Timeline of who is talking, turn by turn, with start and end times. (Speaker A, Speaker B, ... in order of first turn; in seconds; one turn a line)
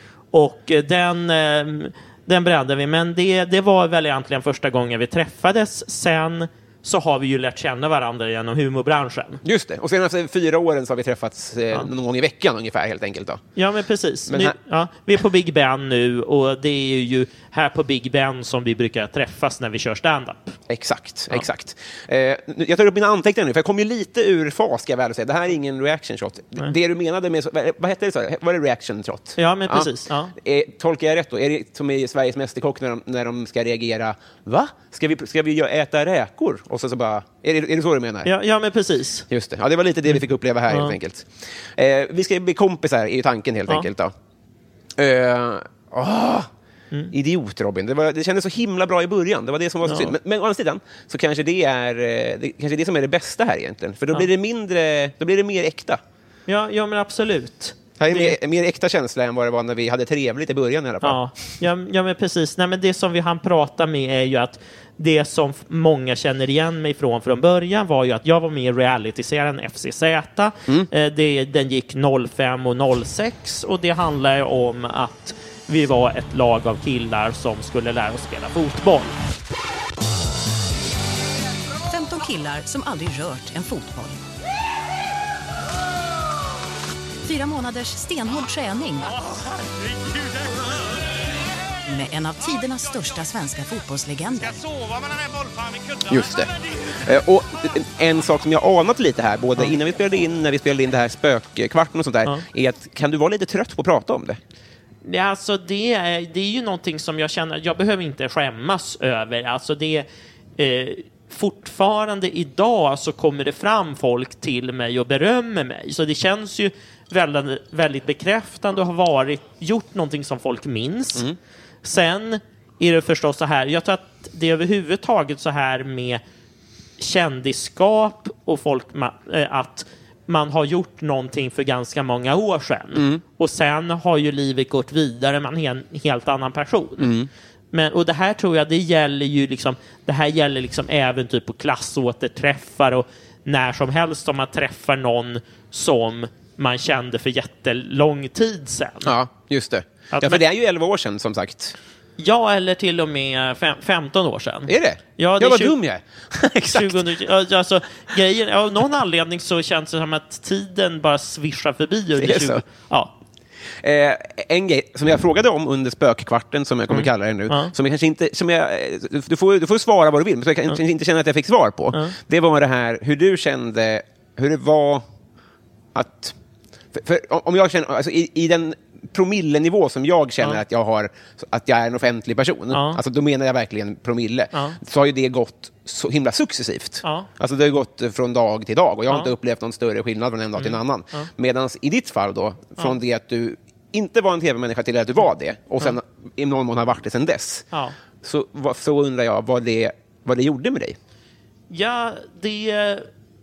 Speaker A: 0.3-9.4
Speaker B: 9.4-13.4
Speaker A: 13.6-20.6
Speaker B: 14.3-14.6
Speaker B: 20.7-38.3
Speaker A: 29.4-30.3
Speaker A: 38.2-39.2
Speaker B: 39.3-44.1
Speaker A: 40.1-40.9
Speaker B: 45.0-46.5
Speaker B: 47.1-56.0
Speaker A: 49.8-50.1
Speaker A: 56.5-58.3
Speaker B: 58.0-61.2
Speaker A: 61.0-79.2
Speaker C: 81.9-84.2
Speaker C: 87.2-89.2
Speaker C: 91.8-94.6
Speaker B: 96.0-104.4
Speaker A: 105.0-110.0
Speaker A: 110.6-121.2
Speaker A: 121.8-126.2
Speaker A: 127.0-137.1
Speaker B: 132.9-133.2
Speaker B: 137.0-137.3
Speaker A: 137.7-149.1
Speaker B: 149.0-151.7
Speaker A: 150.1-150.4
Speaker A: 152.2-155.8
Speaker B: 154.7-157.1
Speaker A: 156.7-163.1
Speaker B: 162.2-162.6
Speaker B: 163.8-175.1
Speaker A: 166.9-167.7
Speaker B: 175.9-176.3
Speaker B: 176.9-197.7
Speaker A: 182.7-183.0
Speaker A: 184.5-184.8
Speaker A: 187.0-187.3
Speaker A: 190.6-191.3
Speaker B: 198.2-201.0
Speaker A: 201.7-203.1